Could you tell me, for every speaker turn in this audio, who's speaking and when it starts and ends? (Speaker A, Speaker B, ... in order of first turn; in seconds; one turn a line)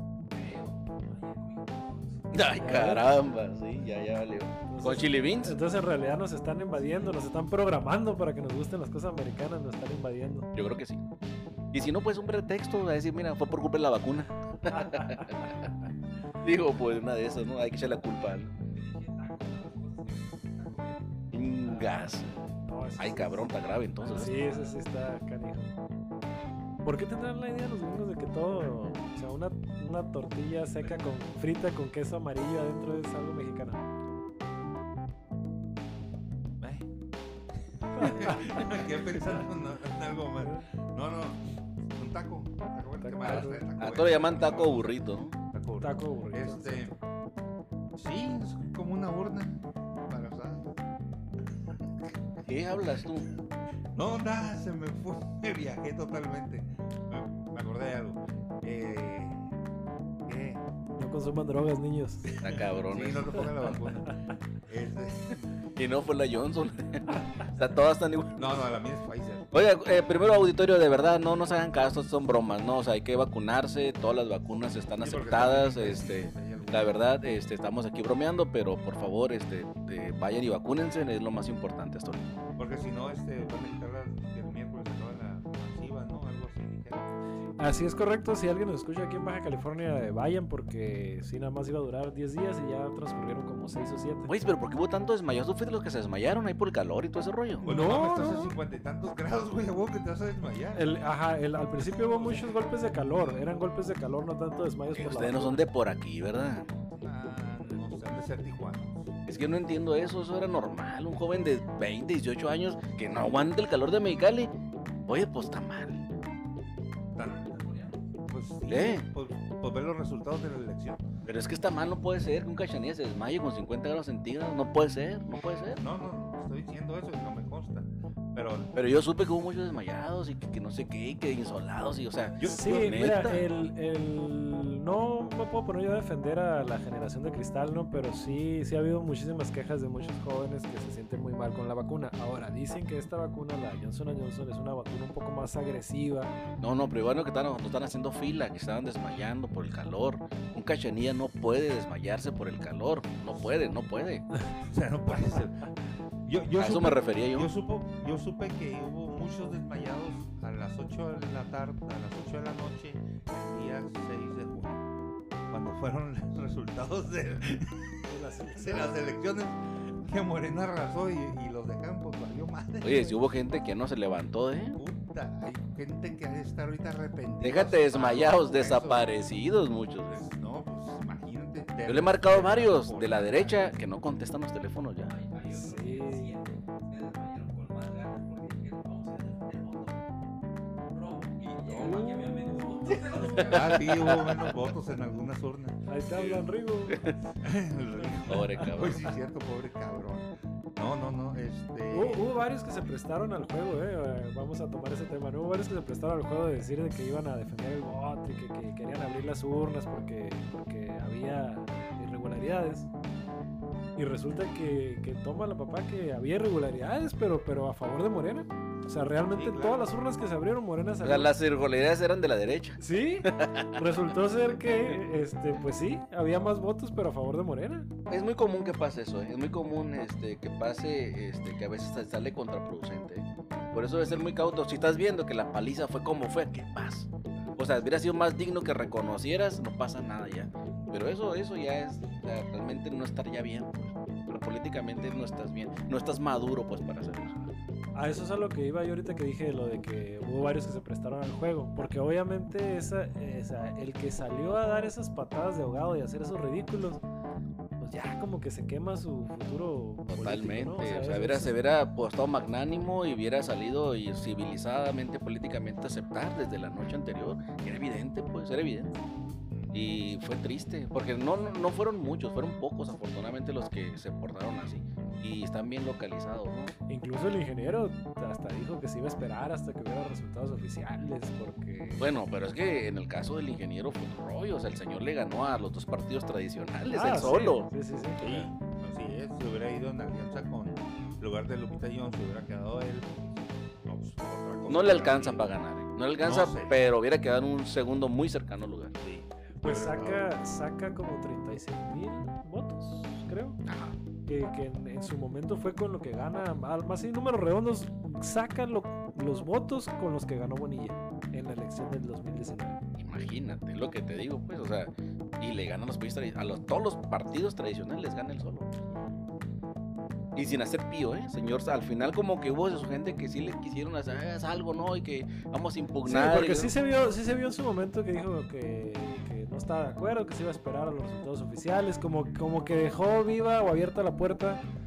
Speaker A: 0.3-4.0
Speaker B: 2.3-5.5
Speaker C: 2.5-3.1
Speaker C: 4.7-10.5
Speaker B: 10.5-11.0
Speaker B: 11.7-15.7
Speaker C: 14.7-15.1
Speaker B: 16.4-18.5
Speaker A: 18.6-21.1
Speaker B: 21.3-22.3
Speaker A: 21.6-22.2
Speaker C: 21.9-23.5
Speaker B: 23.0-24.5
Speaker C: 24.0-25.7
Speaker A: 24.1-24.8
Speaker C: 26.8-33.8
Speaker D: 36.6-36.9
Speaker D: 37.8-46.9
Speaker C: 38.0-38.4
Speaker C: 43.0-43.7
Speaker B: 43.2-45.4
Speaker C: 45.8-46.9
Speaker D: 48.0-50.7
Speaker D: 51.7-52.1
Speaker B: 52.4-53.3
Speaker D: 53.9-59.5
Speaker D: 60.2-60.6
Speaker C: 61.0-62.3
Speaker D: 62.2-65.5
Speaker B: 62.4-63.8
Speaker B: 65.8-68.7
Speaker D: 68.3-69.5
Speaker B: 69.5-82.4
Speaker D: 75.0-77.0
Speaker D: 82.6-87.1
Speaker C: 87.6-94.3
Speaker B: 94.3-97.7
Speaker D: 97.6-101.0
Speaker C: 97.6-98.5
Speaker C: 100.7-105.6
Speaker D: 101.8-102.6
Speaker B: 104.9-106.7
Speaker D: 106.7-109.2
Speaker B: 109.2-114.5
Speaker B: 115.0-116.0
Speaker A: 117.2-118.1
Speaker D: 118.3-121.0
Speaker B: 118.7-119.0
Speaker B: 121.2-125.8
Speaker D: 125.8-128.7
Speaker B: 128.7-133.4
Speaker D: 132.4-133.1
Speaker C: 132.4-146.3
Speaker B: 146.6-154.3
Speaker D: 154.6-155.7
Speaker D: 156.2-164.8
Speaker B: 156.6-157.5
Speaker D: 165.5-168.0
Speaker C: 168.1-169.0
Speaker D: 168.5-173.4
Speaker B: 172.8-174.8
Speaker D: 174.7-179.1
Speaker B: 177.4-180.2
Speaker D: 180.1-183.8
Speaker B: 181.8-185.1
Speaker A: 185.0-190.0
Speaker C: 185.5-186.4
Speaker A: 190.9-194.3
Speaker C: 191.7-192.8
Speaker B: 193.2-194.3
Speaker D: 193.4-195.8
Speaker C: 195.9-197.1
Speaker B: 196.1-197.2
Speaker D: 197.4-202.3
Speaker C: 198.0-198.2
Speaker B: 198.3-199.0
Speaker C: 201.9-212.9
Speaker C: 213.9-221.3
Speaker D: 219.3-219.9
Speaker B: 221.0-223.8
Speaker C: 222.8-227.9
Speaker B: 224.5-224.9
Speaker B: 228.1-247.5
Speaker C: 247.9-257.0
Speaker C: 257.8-261.6
Speaker B: 260.1-268.9
Speaker D: 269.5-269.9
Speaker B: 269.7-276.7
Speaker C: 276.9-282.1
Speaker B: 282.0-287.7
Speaker C: 286.9-288.4
Speaker D: 288.2-295.5
Speaker B: 294.7-298.9
Speaker D: 296.2-296.8
Speaker D: 299.0-300.3
Speaker C: 299.6-303.6
Speaker B: 303.6-303.9
Speaker C: 304.3-312.8
Speaker B: 313.0-318.7
Speaker B: 320.3-326.7
Speaker C: 326.0-334.6